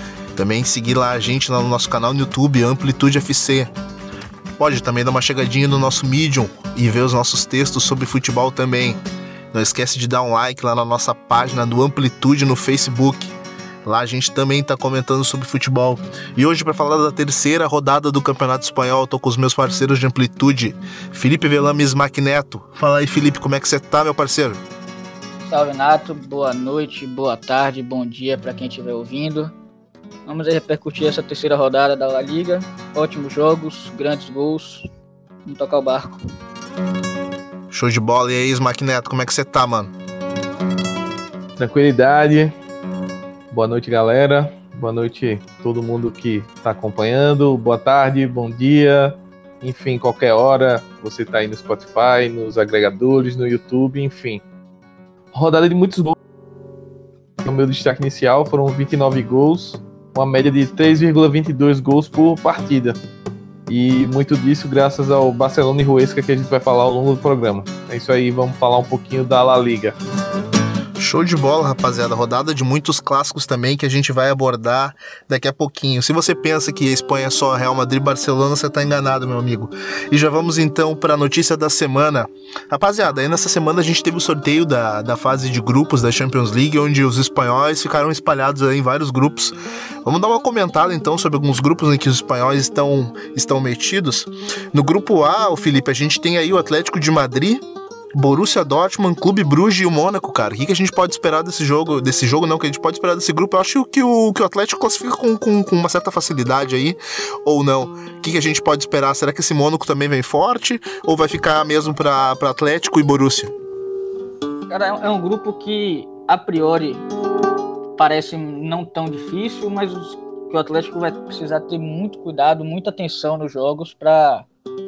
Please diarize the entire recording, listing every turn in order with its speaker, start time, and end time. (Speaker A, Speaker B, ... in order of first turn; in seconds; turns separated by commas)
Speaker A: 0.3-3.7, Speaker A: 4.6-9.0, Speaker A: 9.5-24.6, Speaker B: 25.4-29.5, Speaker B: 30.2-34.9, Speaker B: 35.4-36.2, Speaker A: 37.7-39.9, Speaker C: 41.6-42.5, Speaker C: 43.5-54.4, Speaker C: 55.3-56.1, Speaker C: 57.4-63.0, Speaker C: 63.7-70.0, Speaker A: 71.0-97.6, Speaker A: 98.2-113.5, Speaker B: 114.7-117.0, Speaker B: 118.0-124.5